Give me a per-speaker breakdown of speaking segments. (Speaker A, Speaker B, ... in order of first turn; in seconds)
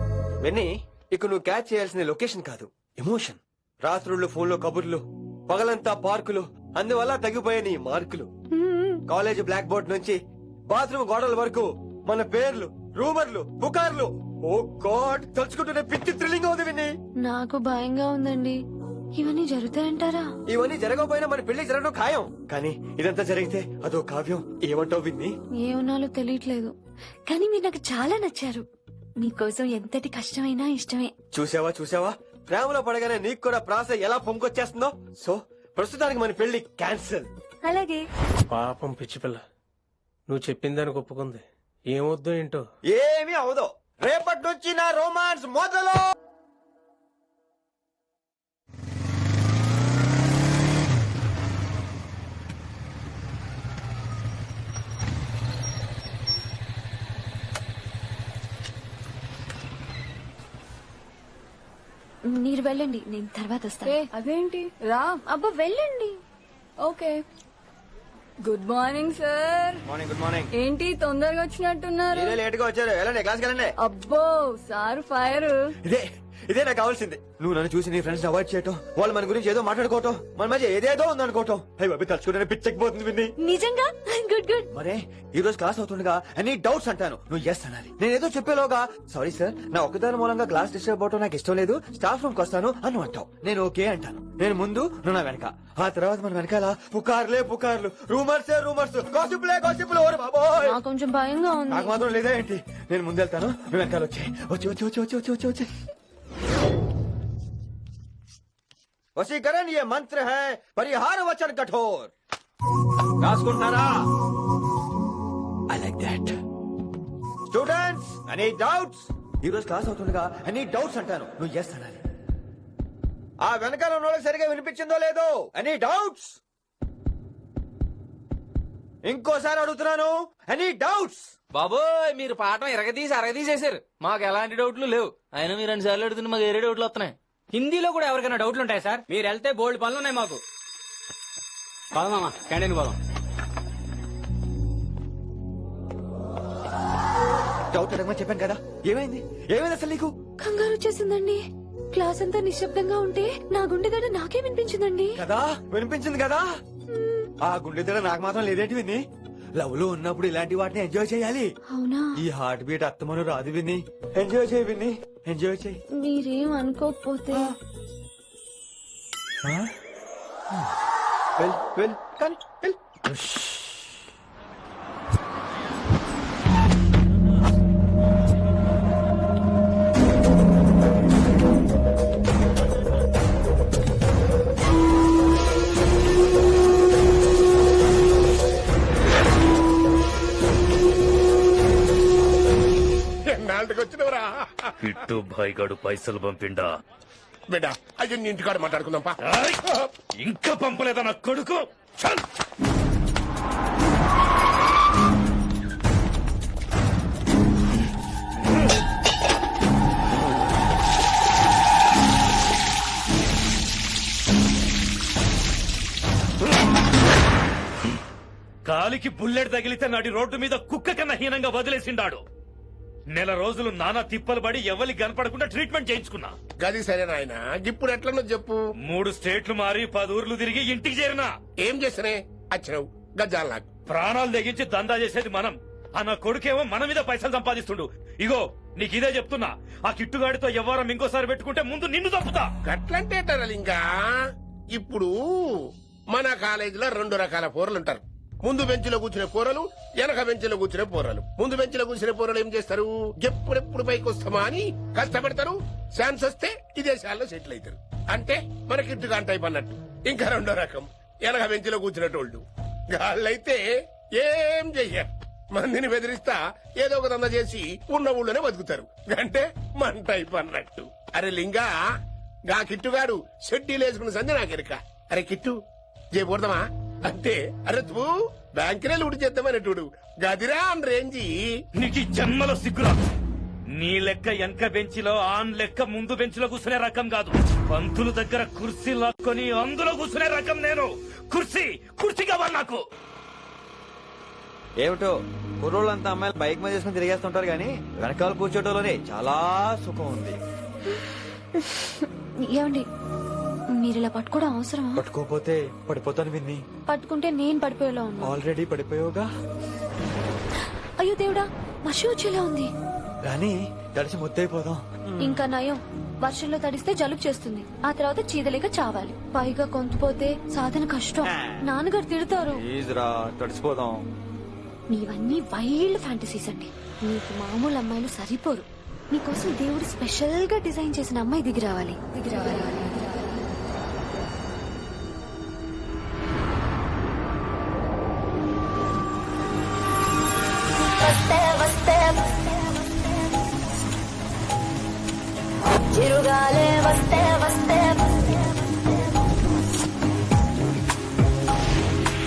Speaker A: 0.4-8.3, 9.1-10.2, 10.7-16.9, 20.5-25.3, 31.3-37.3, 42.9-46.0, 69.8-70.5, 72.1-73.7, 75.8-83.3, 84.7-100.8, 101.7-105.7, 109.2-112.1, 113.2-114.0, 115.7-116.3, 117.5-122.0, 123.4-126.4, 129.0-131.3, 147.7-150.1, 155.2-156.5, 157.4-159.0, 159.6-161.5, 162.2-165.8, 169.4-169.7, 171.4-172.8, 294.8-300.4, 304.9-306.6, 308.2-309.3, 313.2-315.4, 321.2-321.6, 322.5-324.0
Speaker B: 8.5-9.0, 17.2-18.6, 19.1-20.3, 25.6-26.7, 27.3-28.6, 29.2-31.1, 37.6-38.0, 62.3-64.0, 65.3-66.2, 83.4-84.7, 100.6-102.0, 150.4-151.4, 151.9-155.2, 156.9-157.3, 161.7-162.2, 166.0-167.5, 301.6-302.9, 303.7-305.0, 306.9-308.4, 311.0-312.7, 315.2-322.6, 324.9-332.9, 341.4-341.7, 345.9-348.0
Speaker C: 38.5-39.4, 40.3-42.6
Speaker D: 63.9-65.2, 66.8-67.2, 68.4-69.8, 70.5-72.4, 73.8-75.7
Speaker E: 131.5-140.3, 142.6-142.9
Speaker F: 137.5-140.4, 142.0-143.0
Speaker G: 193.2-194.5, 197.5-199.1, 226.6-228.6, 231.6-233.6, 242.6-243.9, 244.7-245.1, 246.1-263.6, 264.2-271.7, 272.5-275.6, 276.1-281.4
Speaker H: 194.8-196.7, 199.3-202.2, 218.6-222.2, 223.1-226.3, 228.8-231.3, 233.9-242.5, 281.8-282.9, 283.7-292.8